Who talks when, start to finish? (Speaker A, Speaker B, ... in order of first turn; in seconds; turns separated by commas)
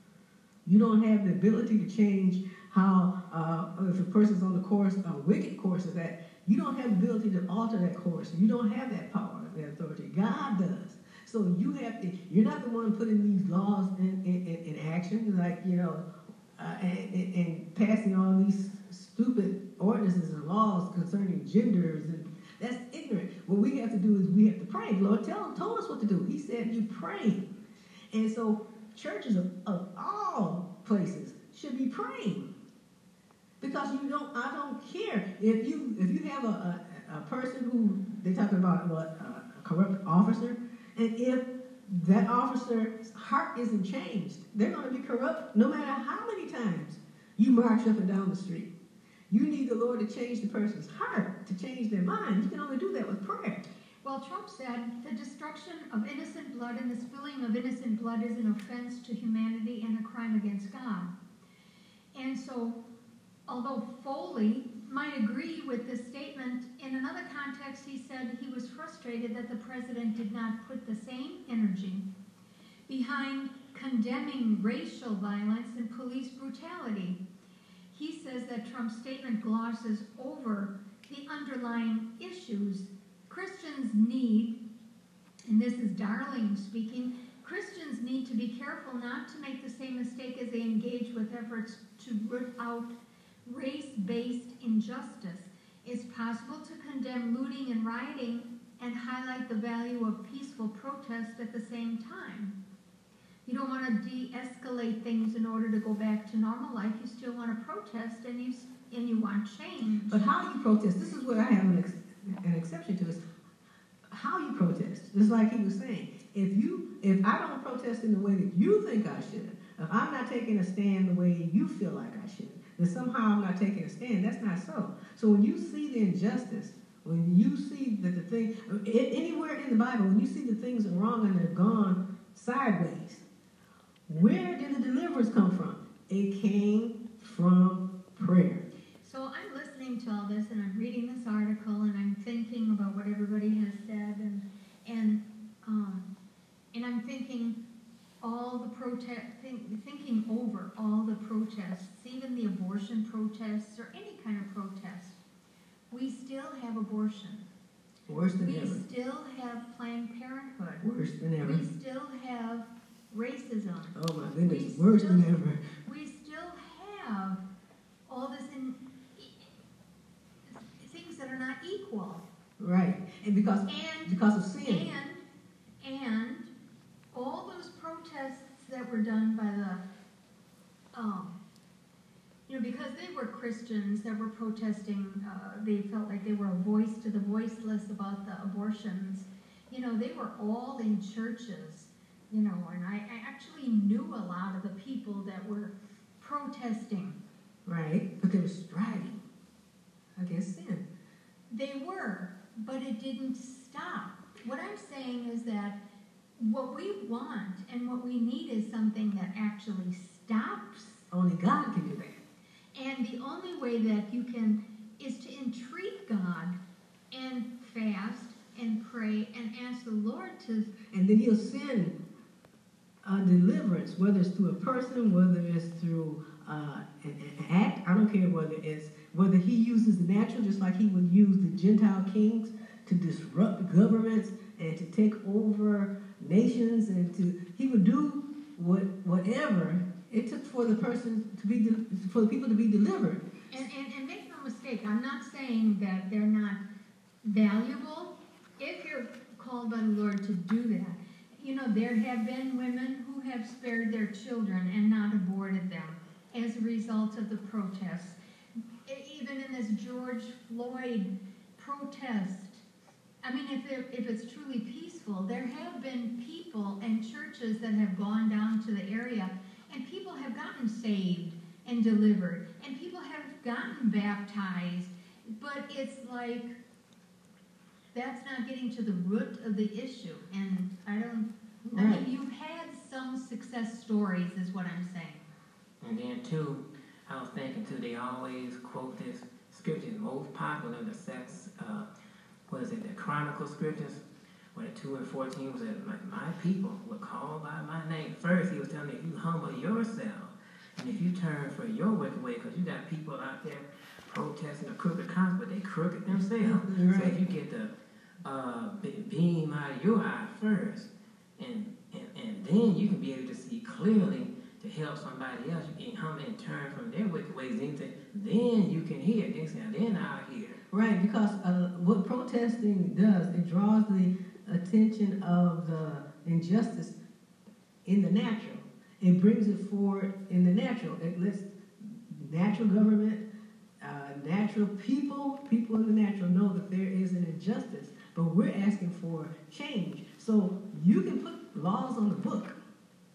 Speaker A: 0.7-16.1, Speaker A: 16.6-27.5, Speaker A: 28.1-32.5, Speaker A: 33.6-48.7, Speaker A: 49.3-53.7, Speaker B: 54.0-61.1, Speaker B: 62.1-62.8, Speaker B: 63.5-72.1, Speaker B: 72.9-77.2, Speaker B: 77.9-84.6, Speaker B: 85.5-102.6, Speaker B: 103.5-110.3, Speaker A: 110.1-113.2, Speaker A: 114.1-133.2, Speaker A: 134.1-138.6, Speaker B: 139.0-146.1, Speaker B: 146.7-147.6, Speaker B: 148.2-155.2, Speaker B: 155.9-157.5, Speaker A: 158.1-158.8, Speaker B: 158.4-160.9, Speaker A: 160.8-161.6, Speaker B: 161.4-167.4, Speaker A: 163.9-165.6, Speaker B: 168.1-169.5, Speaker B: 170.5-172.2, Speaker A: 172.6-174.9, Speaker B: 173.7-175.2, Speaker B: 175.8-176.5, Speaker B: 177.1-179.8, Speaker B: 180.9-181.4, Speaker B: 182.5-197.2, Speaker A: 197.7-199.2, Speaker A: 200.2-200.8, Speaker B: 201.5-205.8, Speaker B: 206.4-211.1, Speaker A: 211.1-212.2, Speaker B: 212.8-216.6, Speaker B: 217.1-220.7, Speaker A: 220.9-222.0, Speaker A: 223.0-243.3, Speaker B: 243.5-246.6, Speaker B: 247.2-258.2, Speaker B: 258.9-262.6, Speaker B: 263.2-276.6, Speaker B: 277.9-285.2, Speaker A: 281.6-282.1, Speaker C: 285.8-291.9, Speaker C: 292.5-320.6, Speaker A: 306.1-307.2, Speaker A: 320.7-326.9, Speaker A: 327.9-333.2, Speaker A: 333.8-342.6